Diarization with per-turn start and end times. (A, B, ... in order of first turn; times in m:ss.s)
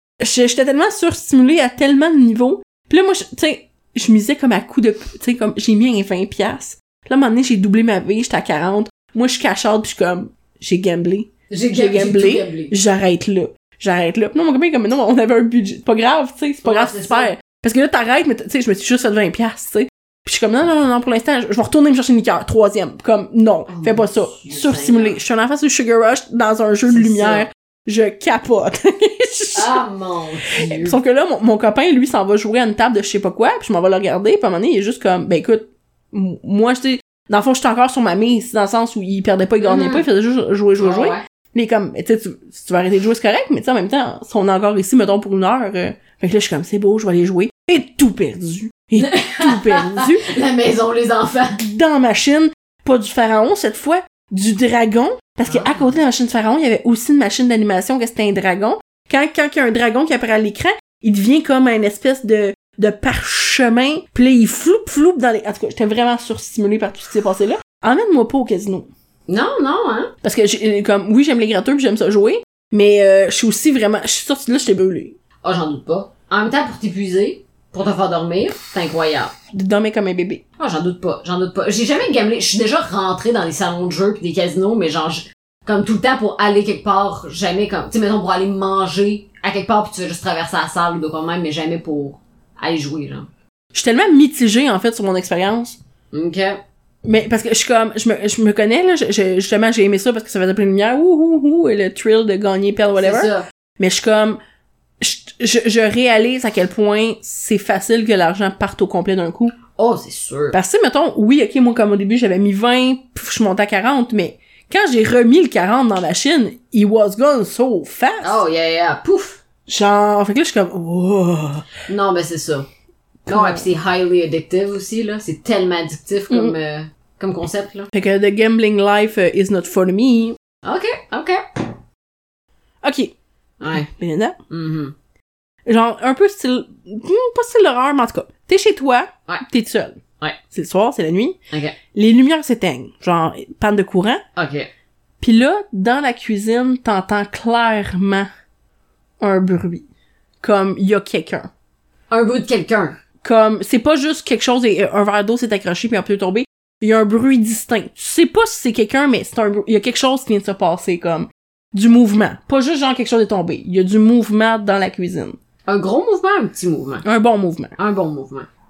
0:00.2-0:29.8 A
0:11.5-0:12.7 B
0:16.6-0:17.3 B
0:23.7-0:25.2 B
0:26.9-0:27.5 B
0:29.5-0:31.0 B
0:30.5-0:50.3 A
0:39.6-0:40.0 B
0:40.8-0:41.2 B
0:49.0-0:51.6 B
0:51.6-1:08.9 A
0:55.5-0:55.8 B
1:09.3-1:10.1 B
1:10.2-1:15.1 A
1:15.4-1:19.3 B
1:19.5-1:20.4 A
1:20.6-1:33.3 B
1:33.7-1:35.8 A
1:36.1-1:36.6 B
1:37.0-1:44.4 A
1:43.0-1:43.4 B
1:45.0-1:49.6 A
1:49.8-1:50.6 B
1:50.5-1:58.4 A
1:58.2-1:59.4 B
1:59.7-2:01.6 A
2:01.9-2:02.7 B
2:03.3-2:03.6 A
2:03.3-2:07.9 B
2:06.3-2:06.5 A
2:07.9-2:10.4 A
2:10.6-2:11.6 B
2:12.8-2:13.1 A
2:13.6-2:13.9 B
2:13.7-2:14.4 A
2:14.5-2:14.9 B
2:15.6-2:21.4 A
2:21.5-2:21.8 B
2:21.9-2:24.2 A
2:24.4-2:24.7 B
2:25.2-2:28.3 A
2:29.2-2:29.8 A
2:30.4-2:31.5 A
2:32.1-2:33.0 B
2:33.2-2:45.4 A
2:45.6-2:47.0 B
2:47.0-2:47.7 A
2:47.8-2:48.5 B